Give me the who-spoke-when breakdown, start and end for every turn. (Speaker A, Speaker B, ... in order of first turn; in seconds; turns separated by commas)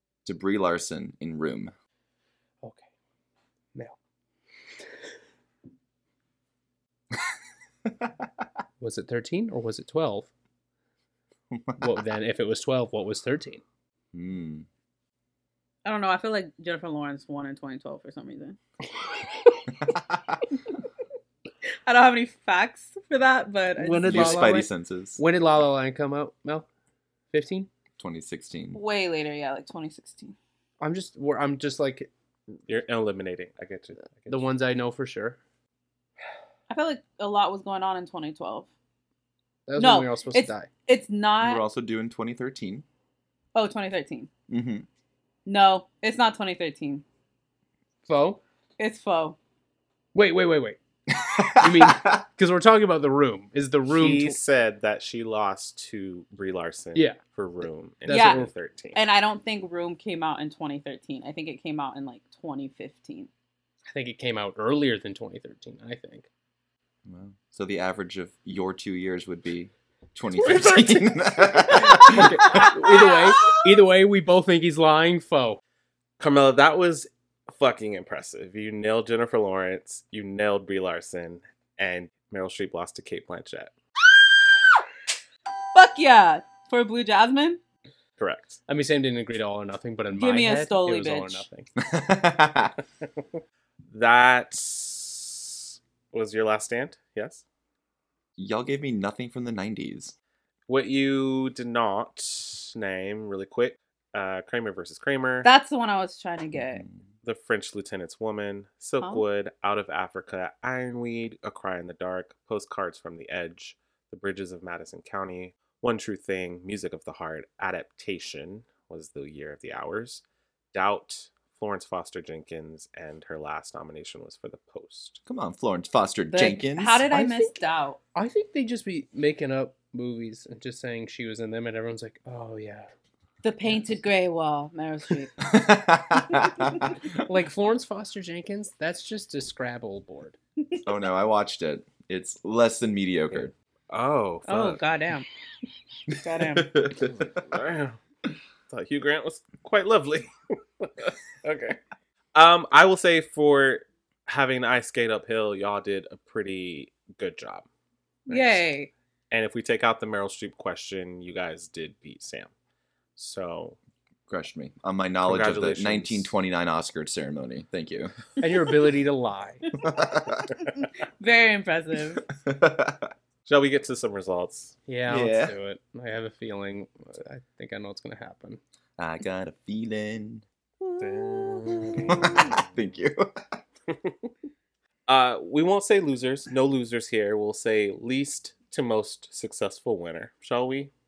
Speaker A: 0.2-1.7, Speaker B: 2.6-2.9, Speaker B: 8.8-10.3, Speaker A: 11.5-11.9, Speaker B: 11.8-13.6, Speaker A: 14.1-14.7, Speaker C: 15.8-18.6, Speaker A: 19.8-20.4, Speaker C: 21.9-24.5, Speaker B: 23.8-26.6, Speaker A: 24.0-25.2, Speaker B: 27.3-27.7, Speaker A: 28.0-28.8, Speaker C: 28.7-30.3, Speaker B: 30.8-32.1, Speaker D: 32.7-34.4, Speaker B: 34.2-35.4, Speaker C: 36.7-38.7, Speaker B: 39.7-40.7, Speaker C: 39.8-41.6, Speaker A: 41.4-42.8, Speaker C: 43.5-44.3, Speaker A: 44.5-44.9, Speaker C: 45.5-47.0, Speaker B: 48.0-48.4, Speaker C: 48.8-49.4, Speaker B: 50.1-50.8, Speaker A: 51.1-52.2, Speaker B: 51.5-54.4, Speaker D: 53.9-59.0, Speaker B: 58.0-58.5, Speaker C: 58.1-63.3, Speaker B: 63.9-66.3, Speaker A: 67.0-72.7, Speaker B: 70.3-75.6, Speaker C: 72.5-73.7, Speaker D: 76.2-83.7, Speaker C: 85.7-87.6, Speaker D: 88.2-88.6, Speaker B: 88.7-91.7, Speaker C: 90.1-91.4, Speaker A: 91.8-92.7, Speaker D: 93.9-97.4, Speaker A: 98.4-100.1, Speaker D: 100.7-105.5, Speaker C: 105.4-106.8, Speaker A: 106.5-107.0, Speaker D: 107.2-125.2, Speaker A: 125.2-127.1, Speaker C: 126.3-128.0, Speaker B: 127.1-127.6, Speaker B: 128.1-132.9, Speaker C: 133.4-135.5, Speaker A: 135.4-137.0, Speaker C: 136.3-136.9, Speaker B: 137.2-140.3, Speaker A: 140.8-143.5, Speaker D: 143.4-144.8, Speaker C: 144.5-145.2, Speaker C: 146.2-146.8, Speaker A: 146.4-147.4, Speaker D: 147.1-148.0, Speaker D: 148.7-151.8, Speaker D: 152.3-157.7, Speaker C: 158.3-158.9, Speaker D: 158.3-158.6, Speaker D: 159.3-162.5, Speaker D: 163.2-163.8, Speaker A: 164.3-168.2, Speaker D: 165.2-166.3, Speaker B: 168.4-169.6, Speaker A: 169.7-170.5, Speaker C: 171.2-172.3, Speaker A: 172.4-173.1, Speaker D: 173.4-174.8, Speaker B: 174.9-178.6, Speaker A: 175.1-175.6, Speaker A: 179.0-180.4, Speaker D: 181.0-182.7, Speaker A: 182.0-183.6, Speaker D: 185.1-190.9